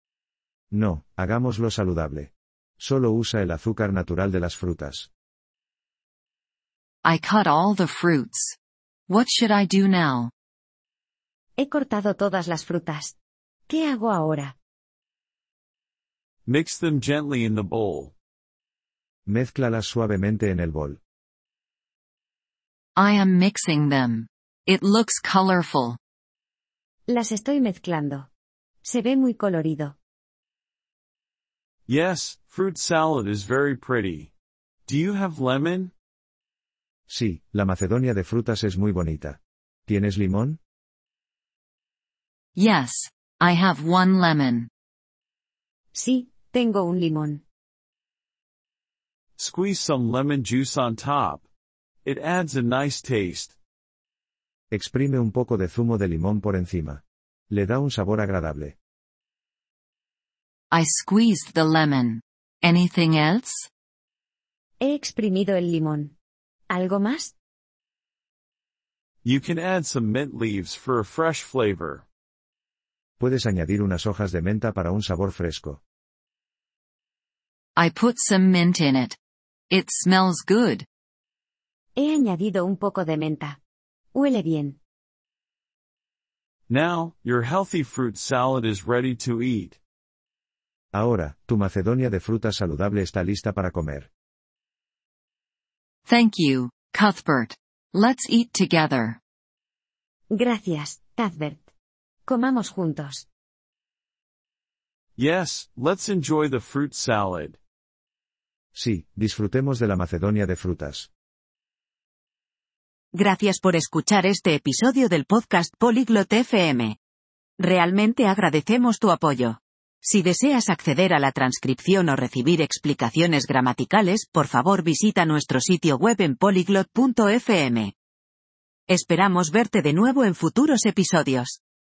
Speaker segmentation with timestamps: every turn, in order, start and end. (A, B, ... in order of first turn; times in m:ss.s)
0:00.7-0:05.1 A
0:07.0-0:08.6 B
0:09.1-0:10.3 B
0:11.6-0:13.2 C
0:13.7-0:14.6 C
0:16.5-0:18.1 D
0:19.3-0:21.0 A
0:23.0-0:26.0 B
0:27.1-0:28.3 C
0:28.8-0:30.0 C
0:31.9-0:34.3 D
0:34.9-0:35.9 D
0:37.1-0:40.6 A
0:42.6-0:44.7 B
0:45.9-0:47.4 C
0:49.4-0:51.4 D
0:52.0-0:53.6 D
0:54.7-0:58.8 A
1:00.7-1:03.7 B
1:04.8-1:06.1 C
1:06.7-1:07.4 C
1:09.2-1:12.0 D
1:13.2-1:15.8 A
1:17.8-1:19.2 B
1:19.7-1:20.9 B
1:22.0-1:23.6 C
1:24.2-1:24.8 C
1:26.7-1:29.8 D
1:30.9-1:34.1 A
1:36.1-1:39.2 B
1:40.3-1:41.7 C
1:42.3-1:43.3 C
1:45.2-1:47.6 D
1:48.8-1:51.1 A
1:53.1-1:57.0 E
1:57.6-2:07.9 E
2:08.9-2:11.6 E